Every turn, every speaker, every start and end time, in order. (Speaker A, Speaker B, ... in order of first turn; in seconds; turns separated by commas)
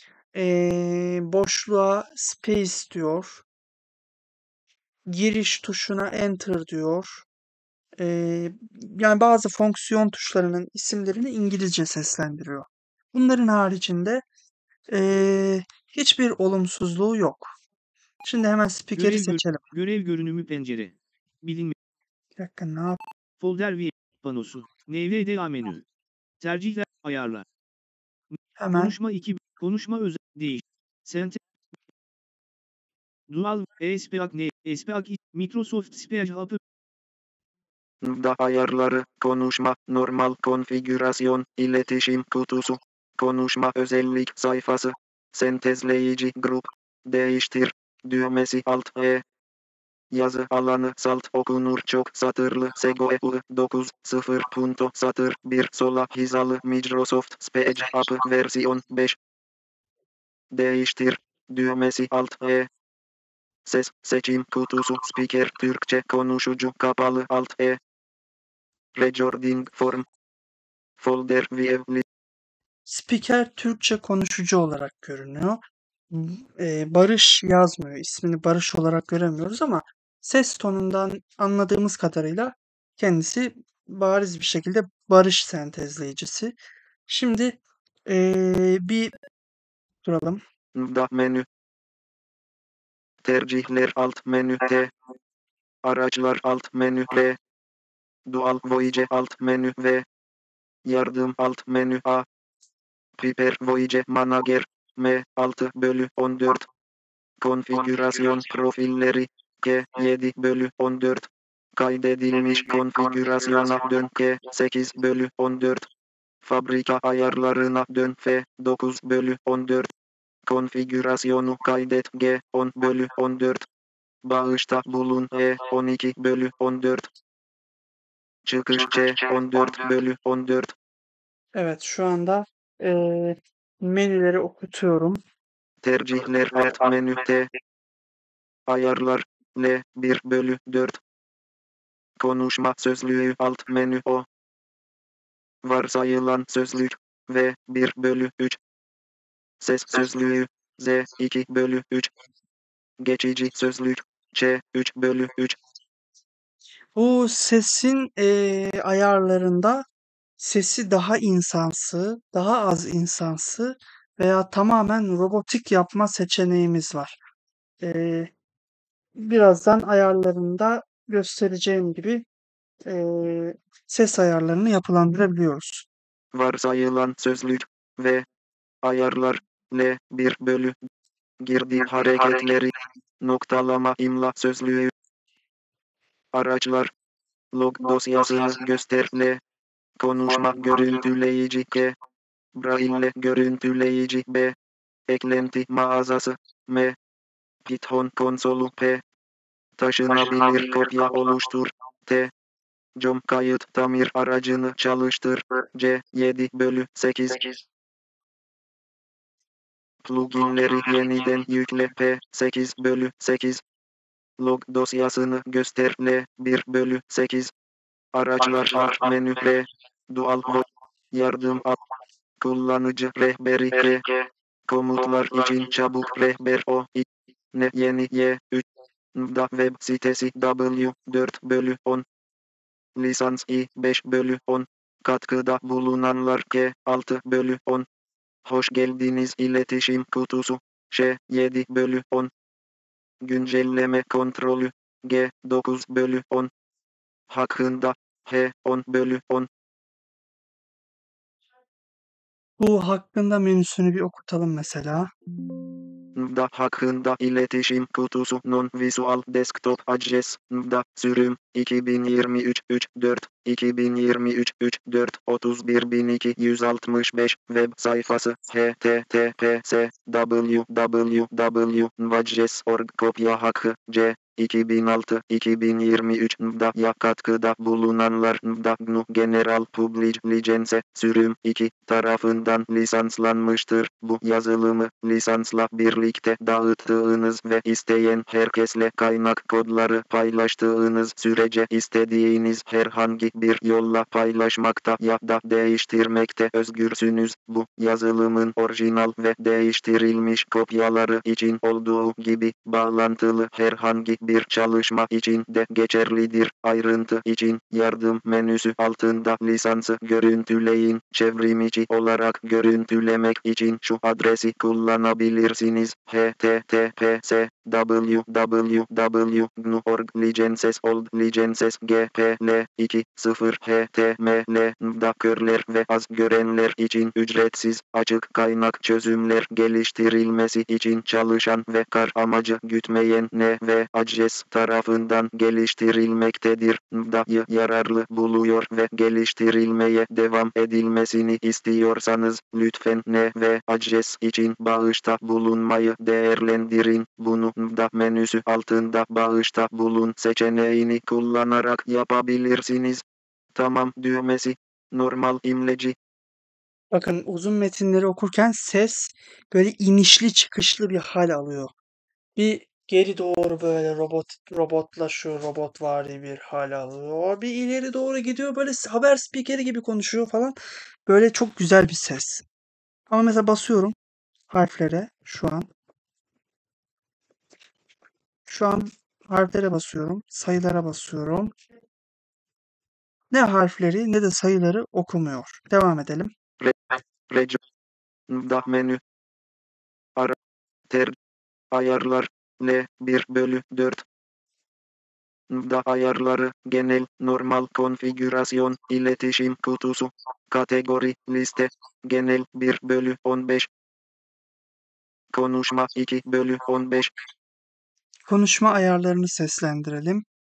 Speaker A: 0.3-3.4, Speaker A: 5.0-7.2, Speaker A: 8.0-14.2, Speaker A: 14.9-17.5, Speaker A: 18.2-19.6, Speaker B: 18.9-21.7, Speaker A: 22.4-23.0, Speaker B: 23.4-25.8, Speaker B: 26.4-27.4, Speaker B: 28.3-31.4, Speaker A: 28.6-28.9, Speaker B: 33.3-36.6, Speaker C: 38.0-49.2, Speaker C: 50.1-59.2, Speaker C: 60.5-62.7, Speaker C: 63.6-67.8, Speaker C: 69.0-70.0, Speaker C: 71.0-72.0, Speaker A: 72.9-86.5, Speaker A: 87.1-89.1, Speaker A: 90.0-90.4, Speaker C: 90.7-91.5, Speaker C: 93.2-94.9, Speaker C: 95.8-97.4, Speaker C: 98.3-100.0, Speaker C: 100.8-102.2, Speaker C: 103.2-106.7, Speaker C: 107.4-115.9, Speaker C: 116.4-119.9, Speaker C: 120.5-123.6, Speaker C: 124.2-127.1, Speaker C: 128.4-130.7, Speaker A: 131.5-135.2, Speaker C: 135.8-137.5, Speaker C: 138.7-141.0, Speaker C: 142.2-144.2, Speaker C: 145.6-148.6, Speaker C: 149.6-152.1, Speaker C: 153.0-155.6, Speaker A: 156.9-159.8, Speaker A: 160.4-167.2, Speaker A: 167.8-168.3, Speaker A: 169.2-172.2, Speaker A: 172.8-175.9, Speaker C: 176.3-178.2, Speaker C: 178.8-180.8, Speaker C: 181.4-184.9, Speaker C: 186.3-186.9, Speaker C: 187.5-189.4, Speaker C: 190.0-191.9, Speaker C: 192.6-194.5, Speaker C: 195.1-196.9, Speaker C: 197.6-199.0, Speaker C: 199.8-202.3, Speaker C: 203.0-207.6, Speaker C: 210.0-213.6, Speaker C: 214.4-217.5, Speaker C: 218.1-221.8, Speaker C: 222.4-224.0, Speaker C: 224.7-232.0, Speaker C: 232.9-237.9, Speaker C: 238.4-242.3, Speaker C: 243.2-246.5, Speaker C: 247.3-249.5, Speaker A: 252.6-255.1, Speaker C: 256.1-353.0, Speaker C: 353.5-355.9, Speaker A: 356.9-361.7, Speaker A: 362.4-372.4, Speaker A: 373.1-373.9, Speaker A: 374.5-375.7, Speaker A: 378.5-381.5, Speaker A: 383.3-386.3, Speaker C: 386.6-387.6, Speaker C: 388.3-389.0, Speaker C: 390.9-391.1, Speaker C: 391.7-394.0, Speaker C: 395.5-403.7, Speaker C: 405.3-407.1, Speaker A: 408.3-410.2